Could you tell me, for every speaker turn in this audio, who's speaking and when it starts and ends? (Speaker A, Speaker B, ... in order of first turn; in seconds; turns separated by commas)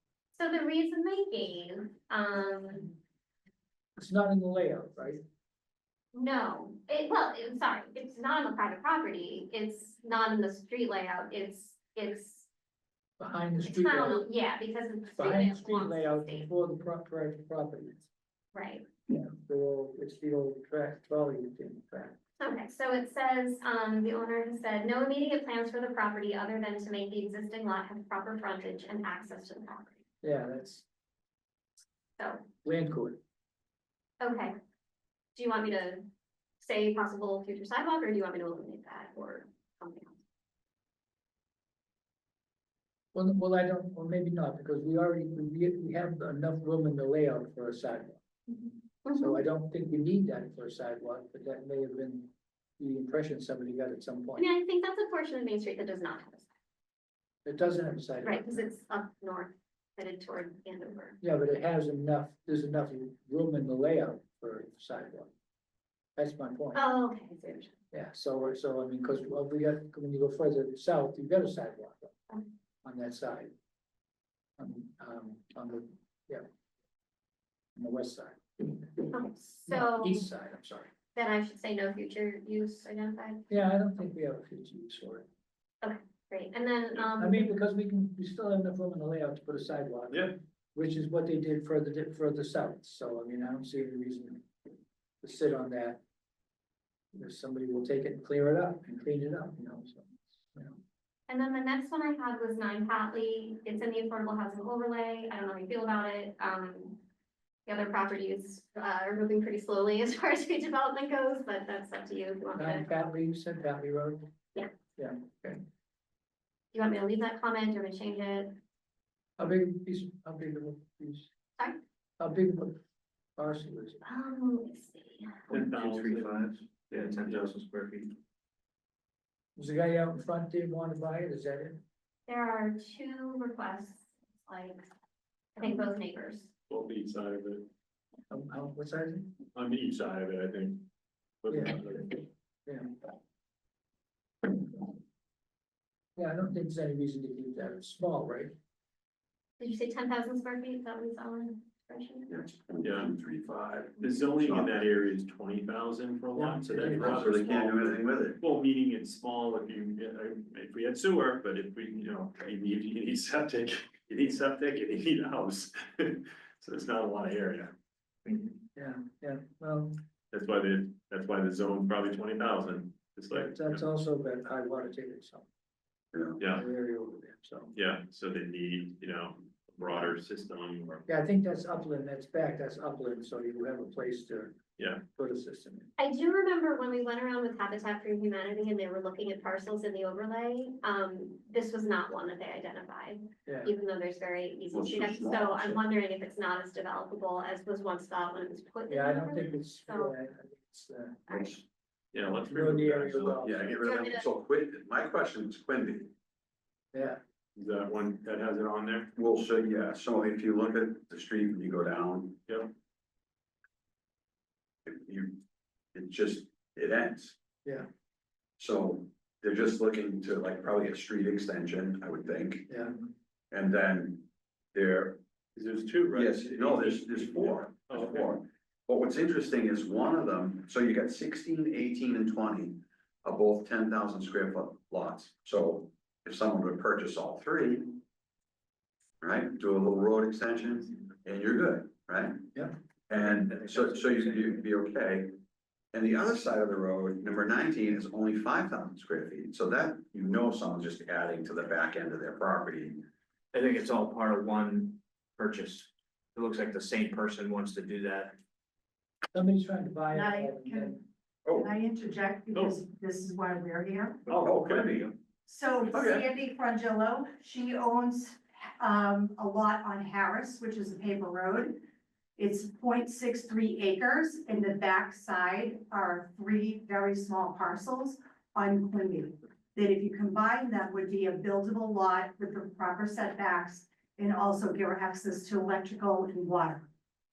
Speaker A: 0.3-2.9, Speaker B: 4.0-5.2, Speaker A: 6.1-12.5, Speaker B: 13.2-14.2, Speaker A: 13.6-16.5, Speaker B: 15.2-18.1, Speaker A: 18.5-18.8, Speaker B: 19.1-22.2, Speaker A: 22.4-30.0, Speaker B: 30.2-30.8, Speaker A: 32.2-32.4, Speaker B: 32.6-33.2, Speaker A: 34.2-34.5, Speaker A: 35.3-36.0, Speaker A: 36.6-40.2, Speaker B: 43.1-48.2, Speaker A: 49.0-49.4, Speaker B: 49.1-54.5, Speaker A: 54.4-56.5, Speaker B: 57.4-58.7, Speaker A: 58.2-61.2, Speaker B: 61.2-65.3, Speaker B: 66.2-66.8, Speaker A: 66.7-67.7, Speaker B: 67.9-72.1, Speaker B: 72.8-73.5, Speaker B: 74.6-76.4, Speaker B: 77.8-79.1, Speaker A: 79.1-80.2, Speaker B: 79.7-80.9, Speaker A: 81.1-83.5, Speaker B: 83.5-85.3, Speaker A: 85.8-87.5, Speaker B: 87.2-94.5, Speaker B: 95.2-96.0, Speaker B: 97.1-100.8, Speaker A: 101.3-107.0, Speaker A: 107.7-112.9, Speaker B: 112.5-114.3, Speaker B: 115.0-115.6, Speaker A: 116.7-118.6, Speaker B: 119.4-121.3, Speaker B: 122.2-122.8, Speaker B: 123.4-124.0, Speaker A: 124.0-125.5, Speaker C: 125.5-127.6, Speaker D: 125.5-128.1, Speaker B: 129.6-131.8, Speaker A: 132.3-134.9, Speaker A: 135.6-136.5, Speaker C: 136.7-137.7, Speaker B: 138.3-139.3, Speaker C: 139.5-140.8, Speaker C: 141.4-142.2, Speaker B: 141.5-143.1, Speaker B: 146.2-148.5, Speaker A: 149.6-152.3, Speaker E: 152.3-154.8, Speaker C: 152.8-153.1, Speaker C: 153.9-167.7, Speaker B: 156.3-157.3, Speaker E: 156.9-158.4, Speaker B: 168.3-170.0, Speaker C: 170.3-173.8, Speaker B: 173.3-175.5, Speaker C: 176.4-176.6, Speaker B: 176.5-177.7, Speaker C: 177.7-181.1, Speaker B: 181.1-184.6, Speaker C: 184.8-185.0, Speaker B: 185.1-185.9, Speaker A: 186.0-200.1, Speaker B: 193.4-193.7, Speaker E: 194.7-195.8, Speaker B: 198.9-201.3, Speaker A: 201.3-201.6, Speaker E: 201.3-201.6, Speaker C: 202.1-203.6, Speaker B: 202.5-203.8, Speaker E: 203.4-206.1, Speaker A: 203.8-204.2, Speaker B: 206.9-207.2, Speaker C: 207.6-209.1, Speaker E: 209.2-212.4, Speaker E: 214.8-215.4, Speaker E: 215.9-217.4, Speaker E: 218.6-222.7, Speaker E: 223.5-225.2, Speaker C: 225.6-228.3, Speaker E: 226.1-238.0, Speaker E: 239.2-242.5, Speaker E: 243.1-245.3, Speaker D: 243.2-244.5, Speaker E: 245.9-253.0, Speaker D: 253.5-258.4, Speaker B: 259.3-261.0, Speaker F: 260.1-264.3, Speaker E: 261.4-261.7, Speaker C: 262.5-262.8, Speaker C: 264.3-264.9, Speaker E: 264.3-265.1, Speaker F: 265.4-271.8, Speaker E: 265.8-266.3, Speaker F: 272.4-286.9